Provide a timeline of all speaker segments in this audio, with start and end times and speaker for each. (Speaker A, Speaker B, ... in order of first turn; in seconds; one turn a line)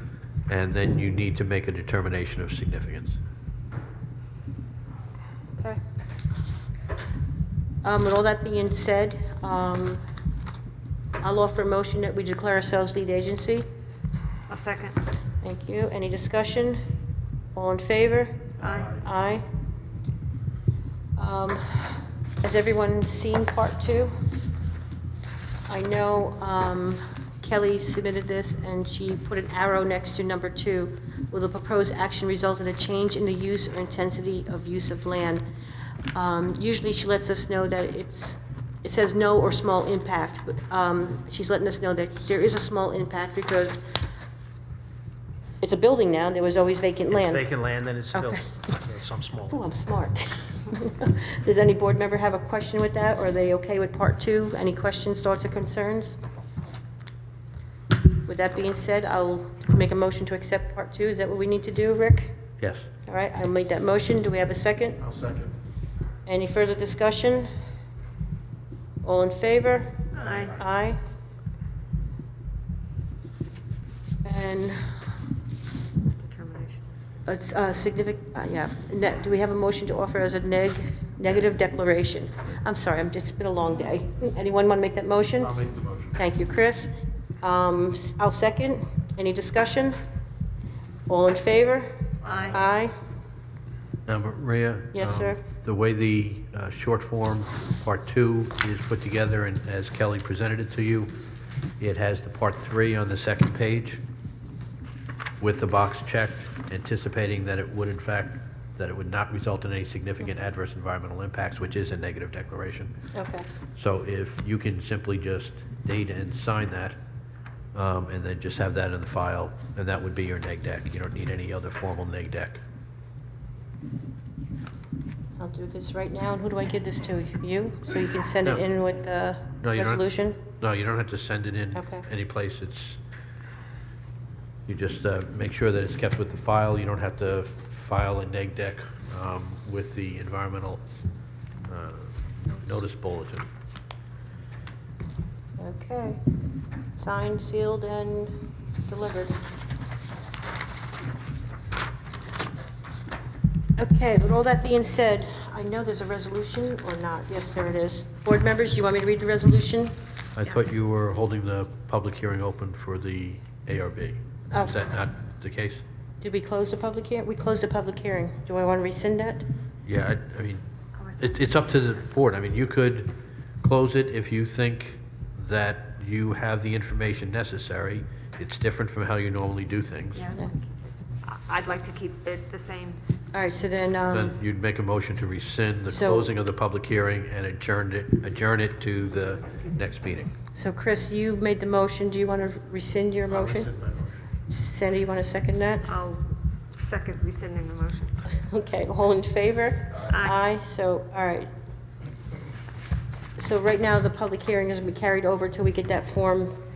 Speaker A: 0.5-3.2
Speaker B: 7.8-10.0
Speaker B: 11.2-13.6
Speaker C: 14.5-15.0
Speaker B: 15.4-16.8
Speaker B: 17.5-19.4
Speaker C: 18.6-19.0
Speaker B: 21.2-24.1
Speaker B: 25.7-35.4
Speaker B: 36.1-43.9
Speaker B: 45.6-47.5
Speaker D: 47.1-49.6
Speaker B: 48.1-48.4
Speaker B: 49.5-56.2
Speaker B: 58.2-62.3
Speaker A: 62.6-62.9
Speaker B: 63.1-65.1
Speaker D: 65.2-65.5
Speaker B: 66.2-67.5
Speaker B: 69.0-71.0
Speaker C: 70.1-70.6
Speaker B: 74.2-75.0
Speaker C: 76.2-76.9
Speaker B: 77.2-86.9
Speaker B: 87.4-90.0
Speaker B: 91.1-91.9
Speaker C: 92.2-92.6
Speaker B: 92.5-92.9
Speaker A: 94.0-101.1
Speaker B: 94.9-95.4
Speaker A: 101.8-104.0
Speaker A: 105.4-112.9
Speaker B: 113.1-113.5
Speaker A: 113.7-117.0
Speaker A: 117.7-122.6
Speaker B: 125.4-130.4
Speaker A: 129.6-133.0
Speaker B: 131.7-132.0
Speaker A: 134.7-140.8
Speaker A: 141.7-143.5
Speaker B: 145.6-146.2
Speaker B: 146.9-148.3
Speaker B: 148.9-149.4
Speaker B: 153.8-159.9
Speaker A: 160.3-165.8
Speaker B: 166.2-169.4
Speaker A: 169.8-170.6
Speaker C: 171.0-171.9
Speaker A: 171.2-173.1
Speaker A: 173.6-180.3
Speaker C: 180.1-180.6
Speaker C: 181.2-183.0
Speaker B: 183.3-184.3
Speaker A: 184.1-190.3
Speaker B: 185.9-186.3
Speaker C: 189.4-189.8
Speaker B: 190.5-193.9
Speaker B: 194.5-195.9
Speaker C: 195.8-198.2
Speaker B: 198.4-201.5
Speaker C: 200.1-200.4
Speaker B: 203.3-206.5